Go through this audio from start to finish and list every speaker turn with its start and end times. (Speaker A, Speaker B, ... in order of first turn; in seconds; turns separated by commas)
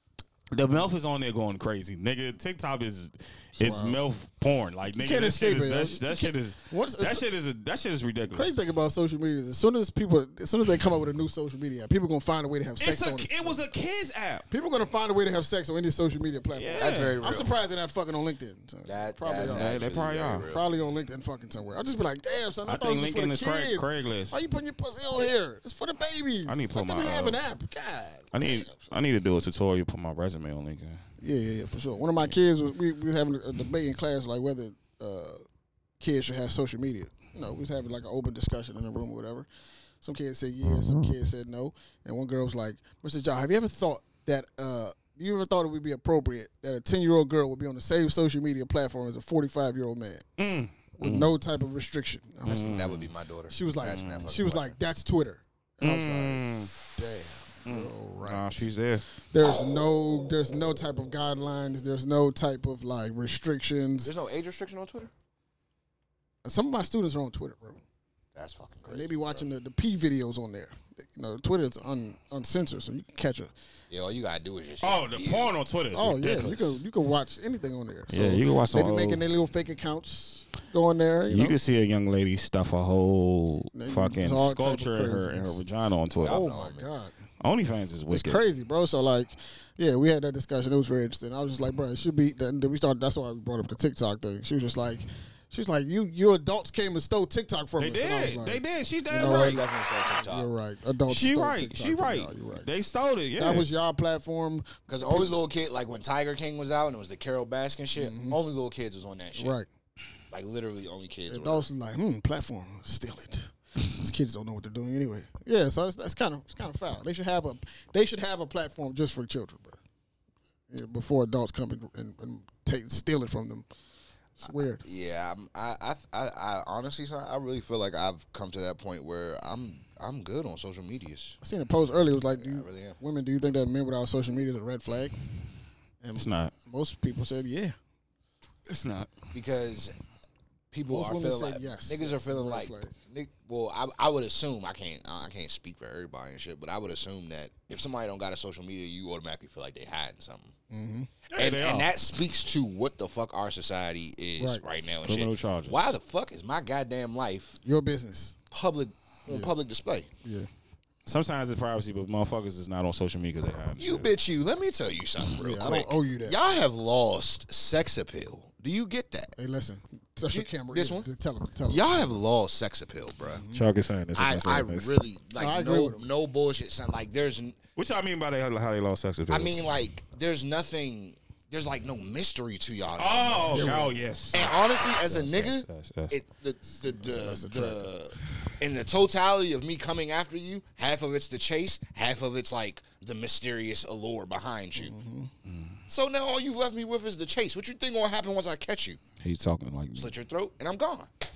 Speaker A: 0.5-8.6, Speaker B: 3.6-4.0, Speaker B: 4.9-7.2, Speaker B: 8.3-13.6, Speaker A: 12.8-14.4, Speaker B: 14.5-19.9, Speaker A: 16.5-17.2, Speaker C: 16.8-17.5, Speaker C: 18.9-20.6, Speaker A: 19.3-20.5, Speaker B: 20.5-28.7, Speaker A: 22.6-24.4, Speaker A: 26.5-27.4, Speaker A: 28.3-31.0, Speaker B: 31.2-35.4, Speaker B: 36.0-39.5, Speaker B: 40.0-50.3, Speaker A: 40.8-41.1, Speaker A: 50.4-51.3, Speaker B: 51.0-52.9, Speaker A: 52.5-53.1, Speaker C: 52.5-54.8, Speaker B: 53.5-58.7, Speaker A: 53.9-54.4, Speaker A: 55.8-56.8, Speaker A: 57.6-59.0, Speaker B: 59.3-64.1, Speaker C: 64.0-65.1, Speaker B: 66.4-67.8, Speaker C: 68.3-69.5, Speaker B: 68.9-73.5, Speaker C: 73.9-75.5, Speaker A: 74.8-76.8, Speaker B: 75.9-81.6, Speaker A: 78.1-79.2, Speaker A: 81.3-86.5, Speaker B: 83.7-85.6, Speaker C: 86.2-86.9, Speaker B: 86.2-87.1, Speaker A: 87.4-88.4, Speaker B: 88.1-102.7, Speaker A: 97.8-99.6, Speaker C: 99.2-100.5, Speaker A: 101.1-103.7, Speaker B: 103.4-105.4, Speaker C: 104.9-109.6, Speaker B: 107.9-108.4, Speaker B: 109.4-109.7, Speaker C: 110.3-111.7, Speaker B: 111.3-119.8, Speaker B: 120.7-123.7, Speaker B: 124.4-124.8, Speaker C: 124.8-131.4, Speaker B: 131.4-135.1, Speaker C: 132.3-133.0, Speaker B: 136.0-137.8, Speaker A: 136.2-136.5, Speaker A: 138.7-139.1, Speaker C: 139.3-139.9, Speaker C: 140.7-150.5, Speaker B: 140.9-143.0, Speaker B: 150.7-151.1, Speaker A: 151.3-151.9, Speaker C: 151.3-157.6, Speaker B: 154.4-154.6, Speaker A: 155.0-155.9, Speaker B: 157.6-158.4, Speaker C: 158.5-160.1, Speaker B: 159.3-159.5, Speaker A: 161.1-164.1, Speaker C: 163.8-169.3, Speaker B: 165.3-166.4, Speaker B: 169.4-172.2, Speaker C: 170.3-171.1, Speaker C: 171.7-173.4, Speaker B: 173.2-173.7, Speaker A: 173.5-175.0, Speaker C: 174.2-177.6, Speaker B: 175.4-176.0, Speaker A: 177.8-179.6, Speaker C: 179.3-194.9, Speaker A: 183.0-186.2, Speaker B: 183.5-183.9, Speaker B: 186.8-187.9, Speaker B: 194.8-195.3, Speaker A: 195.4-195.8, Speaker C: 195.9-199.0, Speaker A: 199.2-200.1, Speaker C: 199.9-201.1